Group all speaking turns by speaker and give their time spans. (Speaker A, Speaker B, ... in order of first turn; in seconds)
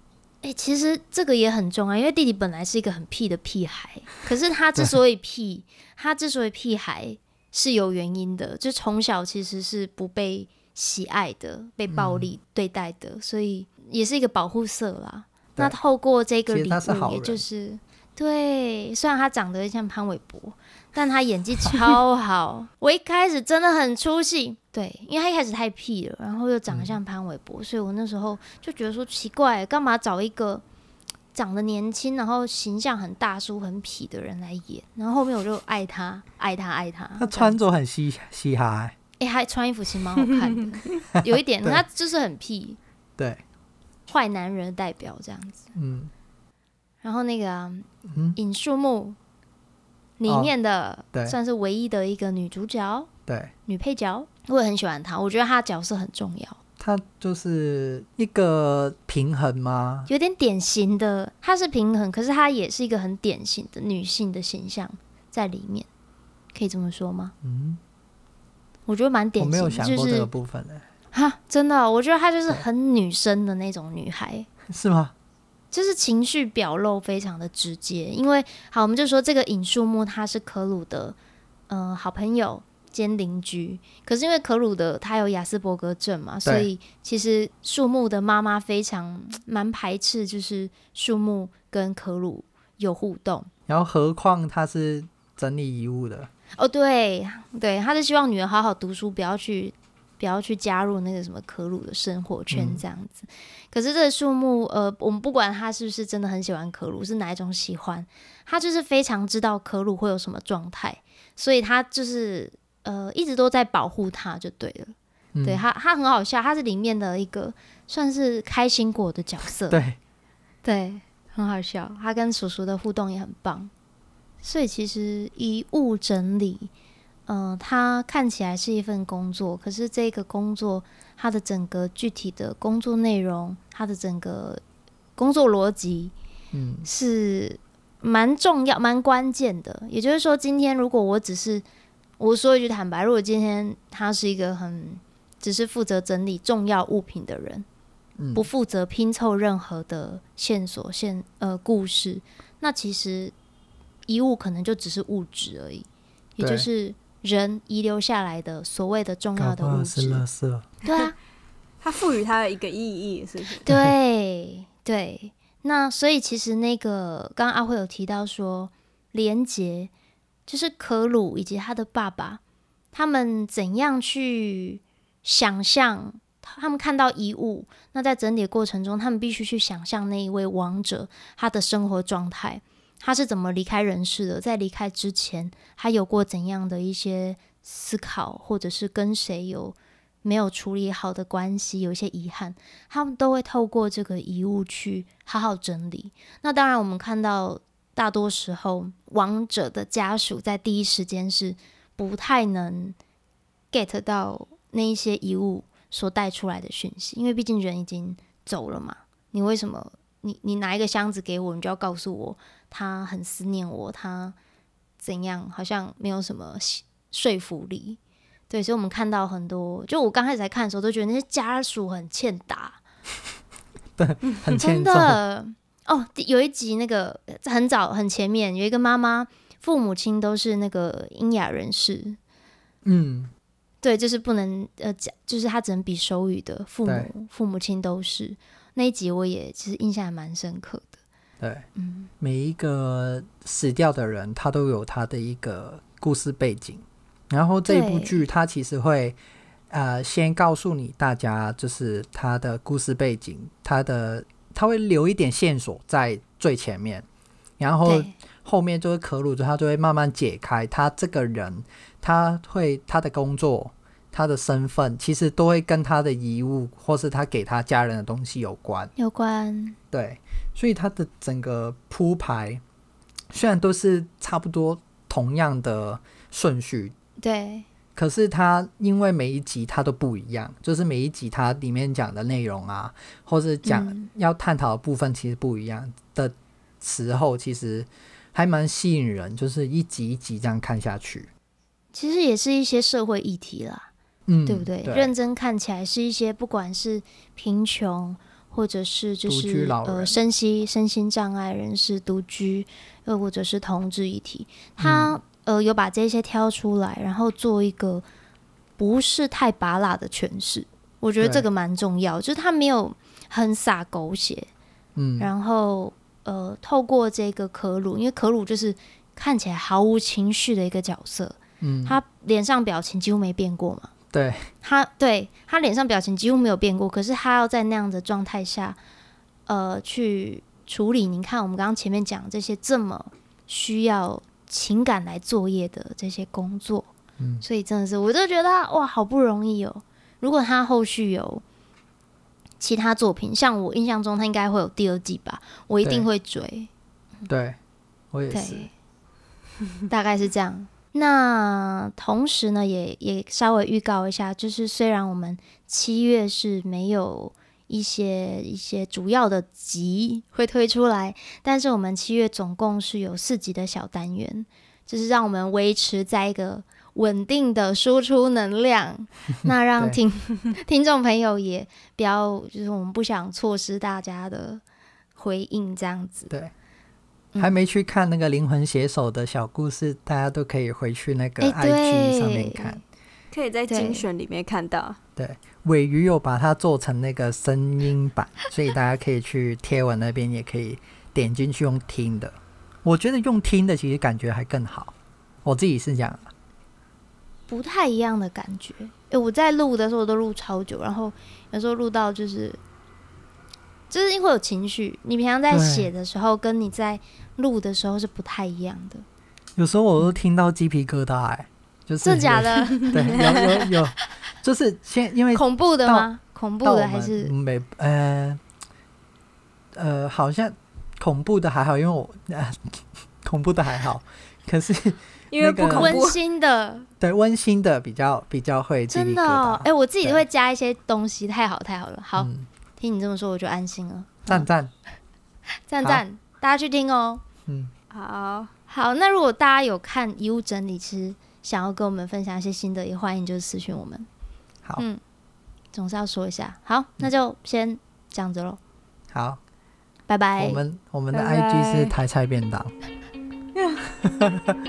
Speaker A: 0.4-30.6, 31.3-37.6, 39.2-42.8, 44.1-45.7, 47.0-49.2, 50.2-53.1, 53.7-56.6, 60.1-65.9, 66.5-67.3, 68.9-70.3, 71.1-74.5, 75.7-81.2, 81.7-93.5, 96.6-119.8, 120.6-123.7, 124.4-126.7, 127.3-134.6, 135.2-136.2, 136.8-141.7, 142.2-147.7, 148.3-153.3, 154.1-160.2, 160.8-161.2, 163.7-169.9, 170.5-172.4, 172.9-203.0, 203.7-214.4, 215.0-218.0, 218.5-222.8, 224.5-232.2, 233.8-241.0, 241.8-242.1, 247.7-248.2, 257.9-258.1, 269.0-269.8, 277.2-277.7, 283.6-284.1, 291.9-293.9, 294.5-308.0, 308.8-314.5, 315.2-323.9, 324.6-328.8, 329.5-341.4, 342.6-346.7, 348.3-348.7, 349.9-374.6, 375.2-376.3, 381.4-382.8, 383.7-384.1, 397.5-402.6, 403.9-409.1, 412.0-413.5, 415.3-417.3, 425.6-426.9, 428.9-434.5, 435.7-437.2, 438.7-444.1, 445.7-448.6, 450.1-450.6
Speaker B: 11.9-12.3, 16.5-17.4, 26.7-27.0, 37.2-39.0, 41.2-41.8, 45.8-46.1, 48.1-48.4, 50.3-50.5, 53.3-53.5, 56.8-60.1, 67.4-67.8, 69.4-70.8, 74.7-75.1, 86.5-86.7, 93.7-96.3, 102.5-102.8, 115.3-115.6, 119.7-120.0, 136.5-136.9, 148.2-148.5, 156.4-156.7, 159.4-160.7, 163.7-163.9, 224.0-225.2, 232.8-233.3, 241.4-241.7, 242.2-249.2, 249.7-257.1, 257.6-268.9, 269.9-272.6, 273.3-276.9, 278.0-291.3, 294.3-295.1, 299.3-300.1, 304.8-305.2, 315.0-315.3, 321.6-322.0, 324.1-324.5, 337.2-337.4, 347.3-347.6, 348.1-348.7, 377.4-382.8, 385.2-396.3, 405.5-405.9, 409.6-416.1, 416.6-418.4, 419.7-426.0, 427.0-430.2, 432.2-432.5, 434.3-434.7, 437.5-437.7, 449.1-449.4, 450.4-452.7, 454.0-454.6
Speaker C: 161.8-163.7, 383.3-385.0, 412.9-413.5, 425.3-426.2, 437.9-438.5, 451.1-451.9, 453.6-453.8